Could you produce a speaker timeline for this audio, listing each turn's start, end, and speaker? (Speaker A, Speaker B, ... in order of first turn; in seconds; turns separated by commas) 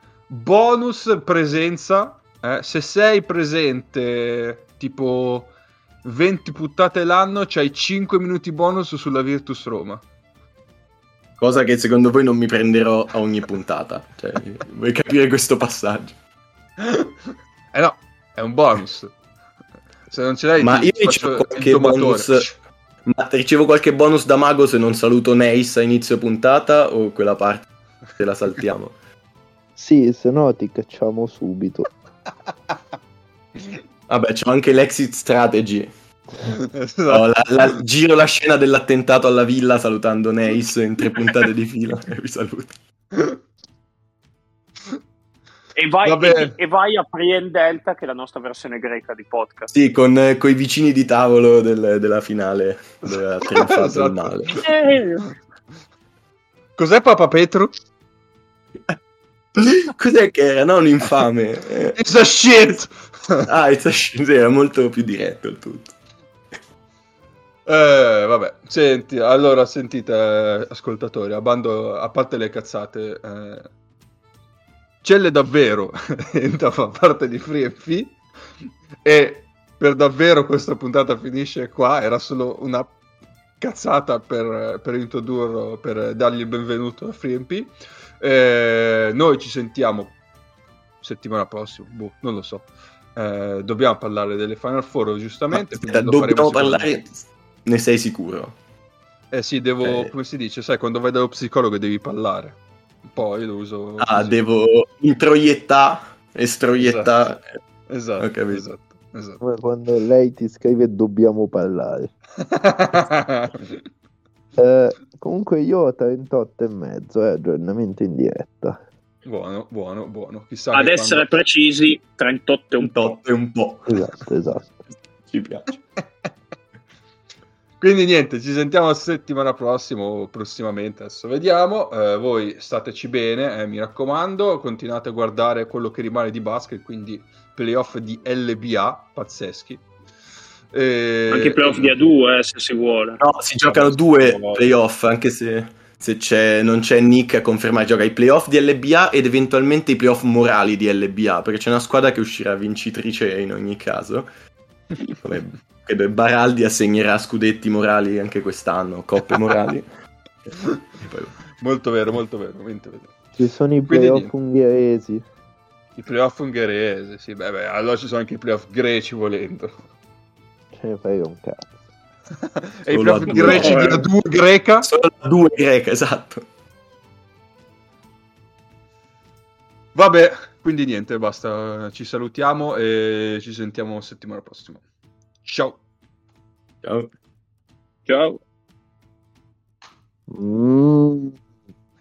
Speaker A: 0.3-10.0, Speaker B: 11.4-16.1, Speaker A: 16.8-17.1, Speaker A: 17.7-19.1, Speaker A: 20.1-22.5, Speaker B: 20.6-22.4, Speaker B: 23.1-27.6, Speaker B: 28.2-28.9, Speaker C: 29.8-31.9, Speaker B: 34.1-35.9, Speaker A: 36.4-37.8, Speaker B: 37.1-42.7, Speaker D: 45.8-49.7, Speaker A: 46.0-46.5, Speaker B: 49.7-54.5, Speaker A: 53.1-54.6, Speaker D: 54.5-55.2, Speaker A: 56.8-57.7, Speaker B: 59.6-62.0, Speaker A: 61.9-63.5, Speaker B: 63.5-65.9, Speaker A: 67.7-73.7, Speaker A: 75.0-78.2, Speaker A: 79.0-83.0, Speaker A: 83.6-90.2, Speaker A: 91.0-97.0, Speaker B: 95.5-98.5, Speaker A: 99.3-104.4, Speaker B: 99.8-100.1, Speaker B: 104.0-107.4, Speaker A: 106.8-107.3, Speaker A: 107.9-109.4, Speaker B: 108.2-108.6, Speaker C: 109.4-112.1, Speaker A: 112.5-113.8, Speaker C: 114.6-118.8, Speaker A: 119.2-121.3, Speaker D: 120.7-123.2, Speaker B: 122.8-123.9, Speaker C: 123.9-124.8, Speaker B: 125.3-125.7, Speaker A: 127.8-139.8, Speaker A: 140.7-142.0, Speaker D: 141.3-143.2, Speaker B: 143.2-154.3, Speaker A: 143.6-144.7, Speaker A: 155.0-155.5, Speaker B: 155.2-159.8, Speaker B: 161.0-161.3, Speaker A: 161.6-163.1, Speaker C: 163.3-165.2, Speaker A: 163.9-164.3, Speaker A: 166.0-169.8, Speaker C: 170.7-171.8, Speaker A: 172.4-174.9, Speaker B: 172.9-174.1, Speaker D: 173.3-174.0, Speaker B: 174.9-176.4, Speaker A: 179.9-184.8, Speaker A: 185.4-185.8, Speaker B: 186.8-187.1, Speaker D: 188.1-188.4, Speaker C: 190.3-191.4